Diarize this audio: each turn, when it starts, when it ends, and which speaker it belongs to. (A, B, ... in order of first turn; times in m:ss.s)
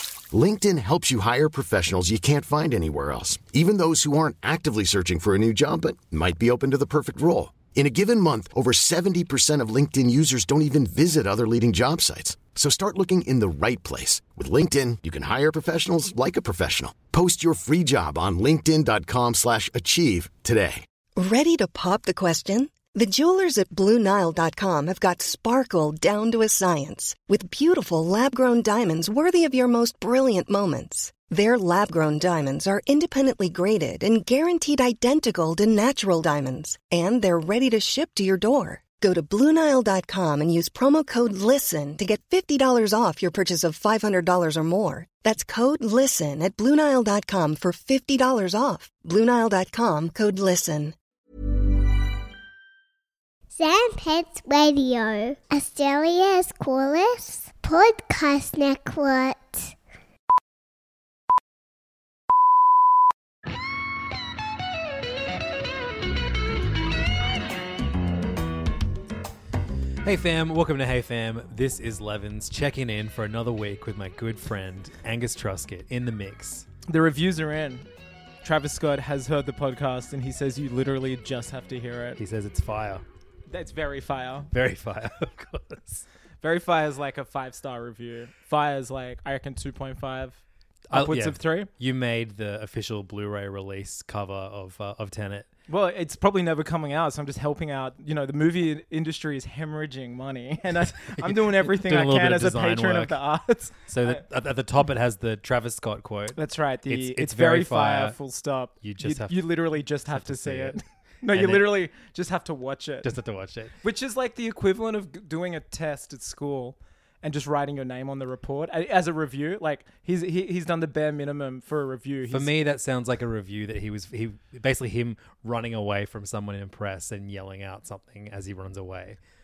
0:00.3-0:20.8 A
0:21.2-0:50.9 B
0:53.5-0:59.7 C
1:10.0-1:16.6 D
1:16.8-1:17.9 E
1:18.4-1:22.2 E
1:22.2-1:23.0 D
1:23.5-1:24.5 E
1:24.5-1:26.0 D
1:26.4-1:31.7 E
1:30.9-1:35.5 D
1:35.7-1:44.2 E
1:41.2-1:43.2 D
1:43.9-1:48.2 D
1:46.3-1:53.1 E
1:48.8-1:49.3 D
1:50.1-1:50.8 D
1:51.3-1:51.8 D
1:53.0-1:53.7 D
1:53.8-2:02.5 E
2:02.3-2:09.2 D